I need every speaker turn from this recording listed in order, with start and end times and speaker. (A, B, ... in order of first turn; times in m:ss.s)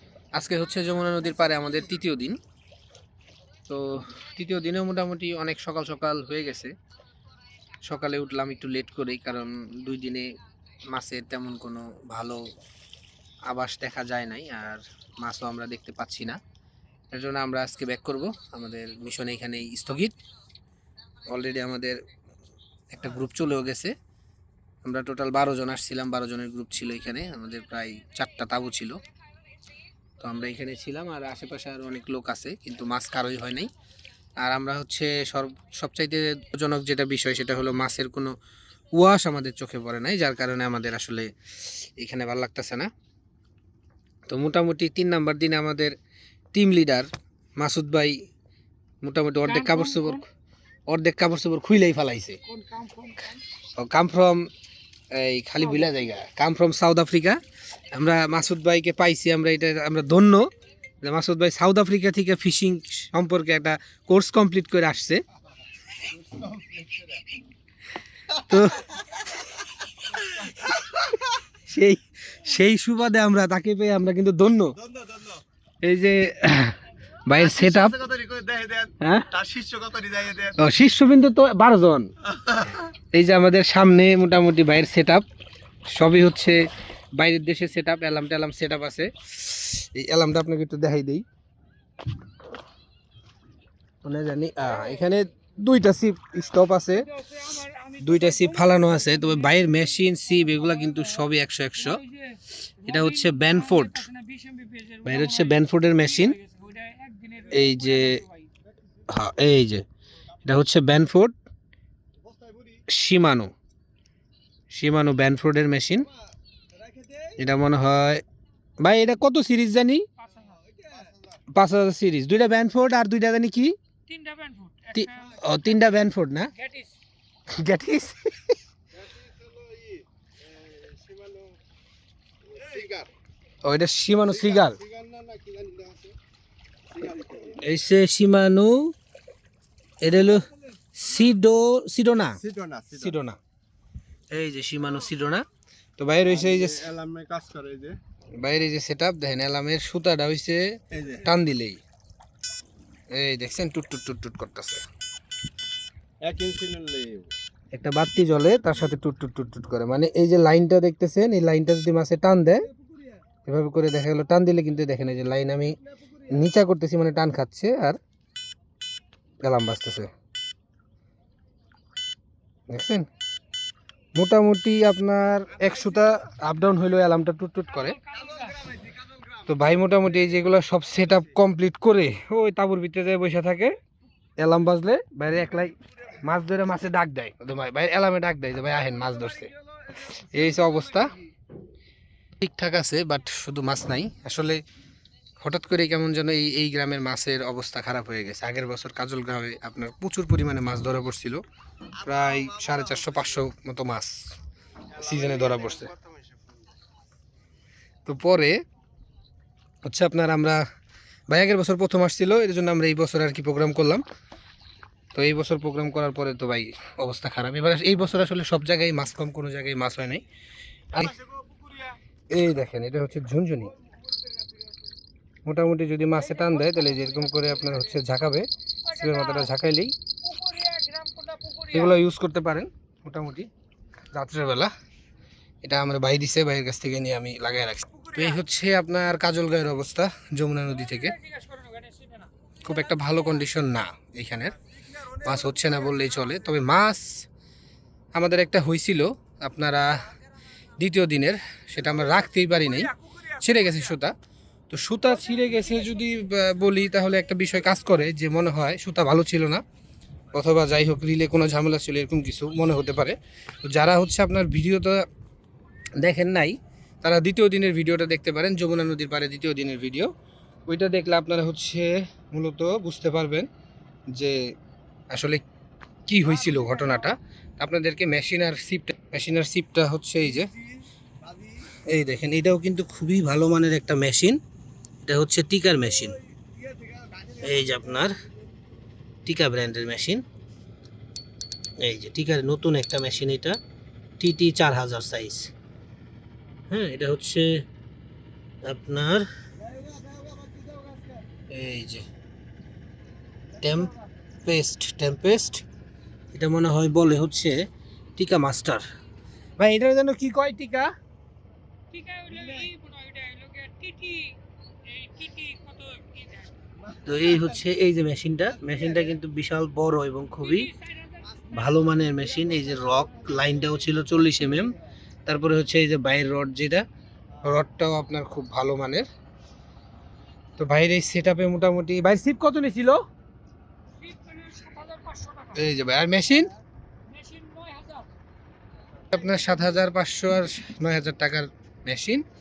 0:00.3-0:02.4 A
0:03.7-0:06.7 A
0:07.8-0:10.3 A
0:10.9-0:12.4 A
0:13.5-0:16.4 A
0:17.1-0:20.1 A
0:21.3-0:22.0 A
0:22.9-0:23.9 A
0:24.8-0:29.0 A
0:30.2-0:33.7 A
0:34.4-0:38.3 A
0:38.9-0:42.9 A
0:44.3-0:45.9 A
0:46.5-0:48.2 A
0:49.0-0:50.2 A
0:49.4-0:50.2 B
0:50.9-0:52.4 A
0:52.5-0:53.4 B
0:53.8-0:54.5 A
0:55.1-0:57.4 A
0:57.9-1:00.5 A
1:01.0-1:05.2 A
1:06.1-1:07.2 C
1:08.4-1:09.0 A
1:11.7-1:14.7 A
1:14.8-1:15.4 C
1:15.8-1:18.0 A
1:17.3-1:20.6 C
1:19.0-1:19.3 A
1:20.6-1:22.1 A
1:22.4-1:22.8 C
1:23.1-1:25.2 A
1:25.9-1:26.6 A
1:27.2-1:31.2 A
1:34.0-1:37.1 A
1:37.0-1:39.8 B
1:38.0-1:42.0 A
1:41.8-1:48.4 B
1:42.8-1:44.0 A
1:45.0-1:46.4 A
1:47.5-1:48.2 A
1:49.1-1:49.8 A
1:50.4-1:51.3 A
1:52.2-1:52.8 C
1:52.9-1:53.5 A
1:54.7-1:56.1 A
1:56.7-1:57.4 C
1:57.4-1:58.2 A
1:58.8-2:00.1 A
2:00.2-2:00.6 B
2:00.5-2:01.4 C
2:01.5-2:03.8 A
2:04.1-2:05.4 B
2:04.9-2:06.5 A
2:06.6-2:06.9 B
2:07.5-2:08.5 A
2:08.9-2:11.6 C
2:12.4-2:13.1 C
2:13.6-2:14.8 A
2:14.3-2:16.2 C
2:16.9-2:17.6 C
2:17.6-2:18.9 A
2:20.0-2:22.4 A
2:22.4-2:23.1 C
2:22.9-2:23.4 A
2:24.3-2:25.4 A
2:26.0-2:26.9 A
2:26.2-2:28.0 C
2:28.4-2:31.8 A
2:30.9-2:31.3 C
2:33.1-2:34.8 A
2:36.2-2:37.3 C
2:37.7-2:42.7 A
2:43.4-2:48.0 A
2:49.4-2:50.1 A
2:52.7-2:53.1 A
2:54.1-2:58.0 A
2:57.7-2:58.6 B
2:59.5-3:03.8 A
3:04.4-3:09.5 A
3:09.4-3:11.2 C
3:10.3-3:11.1 A
3:12.4-3:14.6 A
3:15.4-3:21.4 A
3:22.0-3:24.3 A
3:22.3-3:22.7 C
3:24.9-3:26.7 C
3:25.0-3:25.9 A
3:28.0-3:28.6 A
3:29.8-3:30.6 A
3:31.3-3:34.0 A
3:35.1-3:40.2 A
3:41.1-3:41.9 C
3:42.3-3:43.7 A
3:45.4-3:49.9 A
3:46.4-3:47.0 B
3:48.8-3:49.5 B
3:50.2-3:51.9 B
3:51.7-3:53.5 A
3:54.1-3:54.7 A
3:55.6-4:01.2 A
4:00.8-4:02.3 B
4:02.6-4:04.6 A
4:05.2-4:07.2 A
4:08.1-4:10.1 A
4:10.8-4:14.1 A
4:14.7-4:19.6 A
4:20.3-4:25.1 A
4:26.0-4:30.1 A
4:30.7-4:33.5 A
4:34.1-4:34.5 A
4:35.1-4:35.4 A
4:36.1-4:40.5 A
4:41.2-4:41.5 C
4:41.9-4:44.4 A
4:45.0-4:46.2 A
4:46.5-4:48.1 C
4:47.4-4:48.1 A
4:49.2-4:50.2 A
4:51.8-4:53.6 A
4:54.2-4:55.5 A
4:56.7-4:57.6 A
4:58.6-4:59.2 A
4:59.6-5:01.2 C
5:01.5-5:02.0 A
5:03.6-5:03.9 A
5:04.4-5:05.6 A
5:06.3-5:07.6 A
5:08.2-5:08.8 A
5:09.6-5:10.9 A
5:11.9-5:14.4 B
5:14.9-5:16.5 B
5:17.0-5:20.7 A
5:20.4-5:21.2 B
5:21.5-5:24.7 A
5:25.2-5:26.8 A
5:27.4-5:29.1 A
5:30.6-5:33.0 A
5:34.0-5:35.6 B
5:35.5-5:36.5 A
5:37.1-5:38.1 B
5:39.1-5:42.2 A